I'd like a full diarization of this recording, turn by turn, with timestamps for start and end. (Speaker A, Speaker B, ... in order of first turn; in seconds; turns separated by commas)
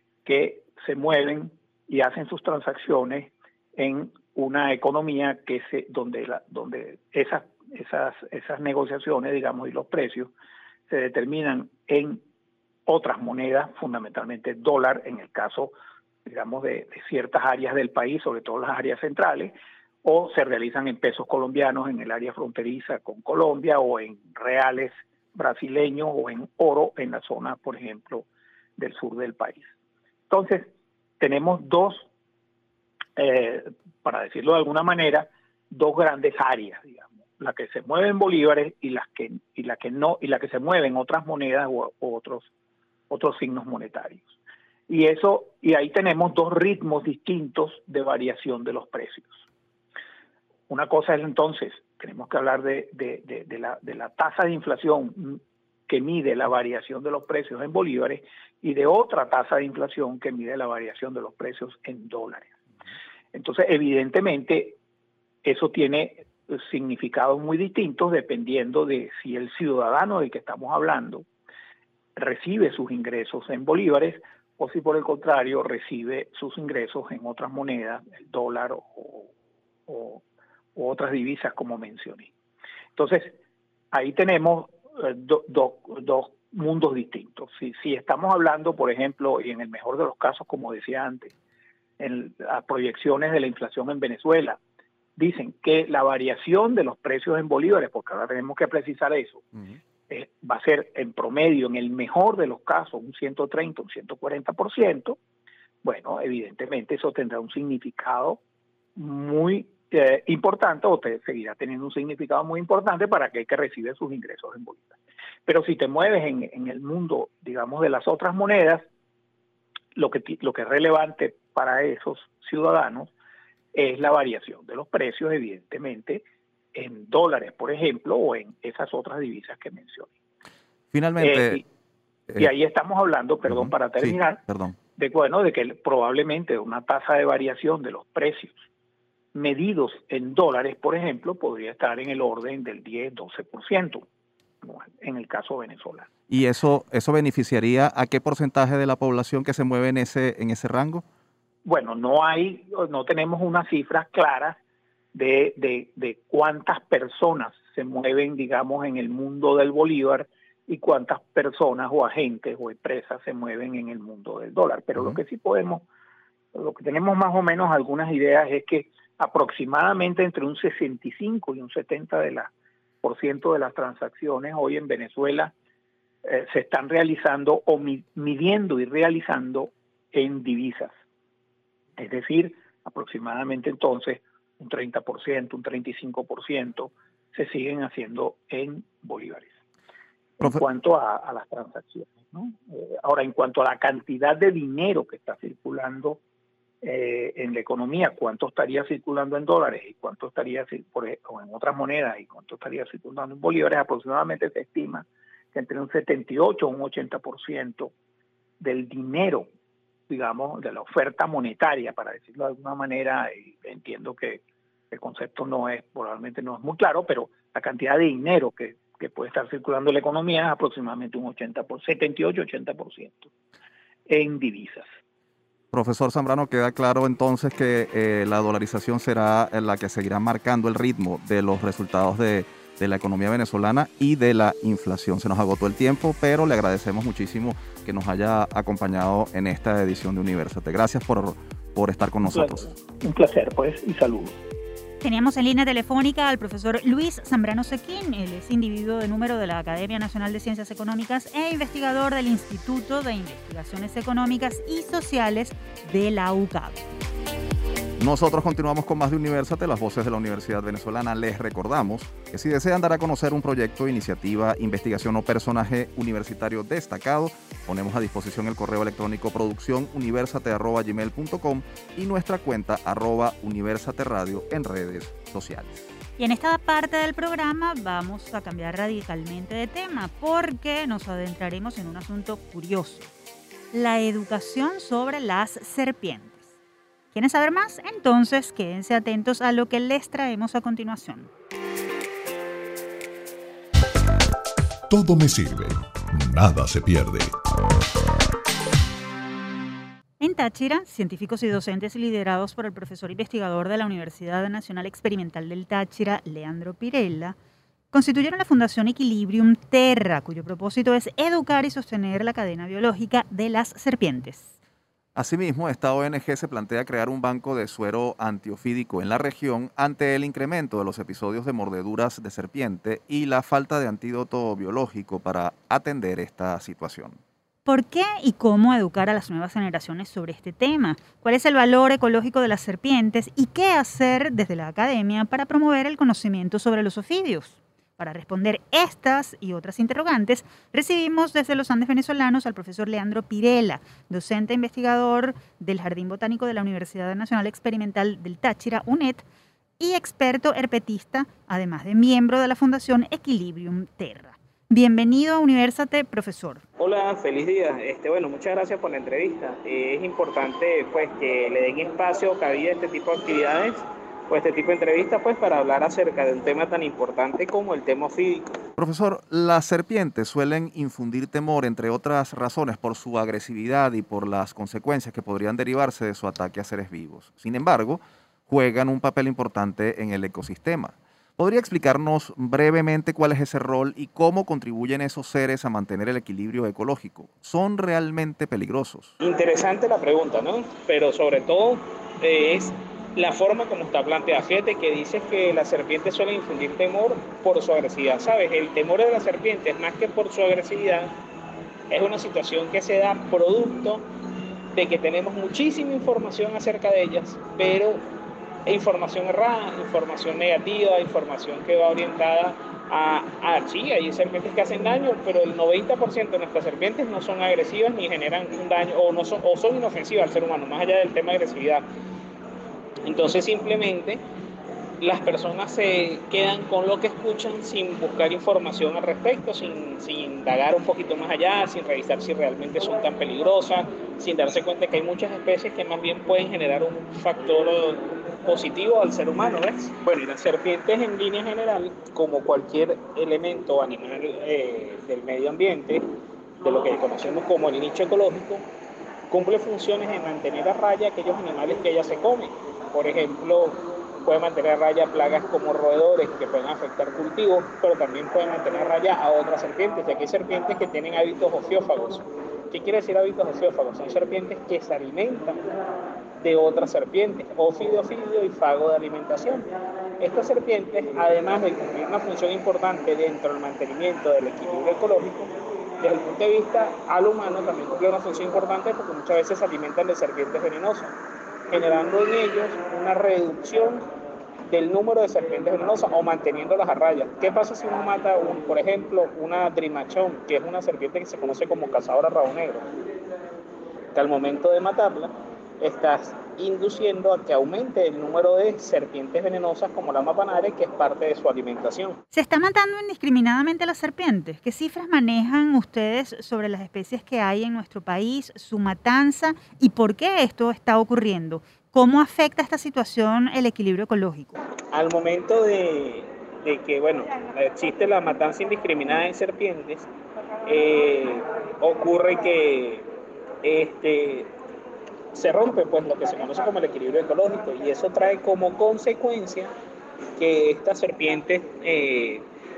Speaker A: 0.2-10.3, Speaker A: 10.9-12.2, Speaker A: 12.9-15.7, Speaker A: 16.3-29.7, Speaker A: 30.3-32.1, Speaker A: 33.2-42.5, Speaker A: 43.1-44.3, Speaker A: 44.9-49.4, Speaker A: 50.7-62.5, Speaker A: 63.3-64.8, Speaker A: 65.4-71.3, Speaker A: 72.2-79.3, Speaker A: 79.9-80.2, Speaker A: 80.8-82.3, Speaker A: 83.0-83.4, Speaker A: 83.9-91.3, Speaker A: 92.0-94.6, Speaker A: 95.2-99.5, Speaker A: 100.1-105.2, Speaker A: 105.8-108.4, Speaker A: 109.0-118.8, Speaker A: 120.0-123.1, Speaker A: 123.7-130.1, Speaker B: 130.9-131.6, Speaker A: 131.2-131.6, Speaker A: 132.4-134.4, Speaker B: 133.5-134.8, Speaker A: 135.0-138.6, Speaker A: 139.3-144.1, Speaker A: 144.6-146.1, Speaker B: 146.3-151.1, Speaker A: 151.7-154.6, Speaker A: 155.1-165.9, Speaker A: 166.5-172.5, Speaker A: 173.0-175.5, Speaker A: 176.2-180.9, Speaker A: 182.0-189.5, Speaker A: 190.4-196.2, Speaker A: 196.8-207.9, Speaker A: 208.6-209.5, Speaker A: 210.1-223.3, Speaker A: 224.1-224.9, Speaker B: 225.7-242.7, Speaker A: 242.3-244.4, Speaker C: 245.0-256.8, Speaker B: 258.0-275.9, Speaker C: 276.2-283.1, Speaker C: 283.7-286.4, Speaker C: 287.1-291.3, Speaker D: 294.9-297.3, Speaker C: 300.2-307.4, Speaker C: 307.9-314.5, Speaker B: 315.1-327.2, Speaker C: 327.7-349.2, Speaker C: 349.8-356.6, Speaker E: 356.8-368.5, Speaker B: 368.8-389.1, Speaker E: 389.2-401.1, Speaker E: 401.9-404.1, Speaker E: 404.7-408.0, Speaker E: 408.7-421.9, Speaker E: 423.0-424.2, Speaker E: 425.0-446.0, Speaker E: 446.6-448.7, Speaker E: 449.3-465.7, Speaker E: 466.4-469.7, Speaker E: 470.2-481.1, Speaker E: 481.7-484.0, Speaker E: 484.7-492.9, Speaker E: 494.1-502.2, Speaker C: 502.3-514.6, Speaker E: 514.9-520.1, Speaker E: 520.7-523.1, Speaker E: 523.6-524.5, Speaker E: 525.3-529.7, Speaker E: 530.4-532.5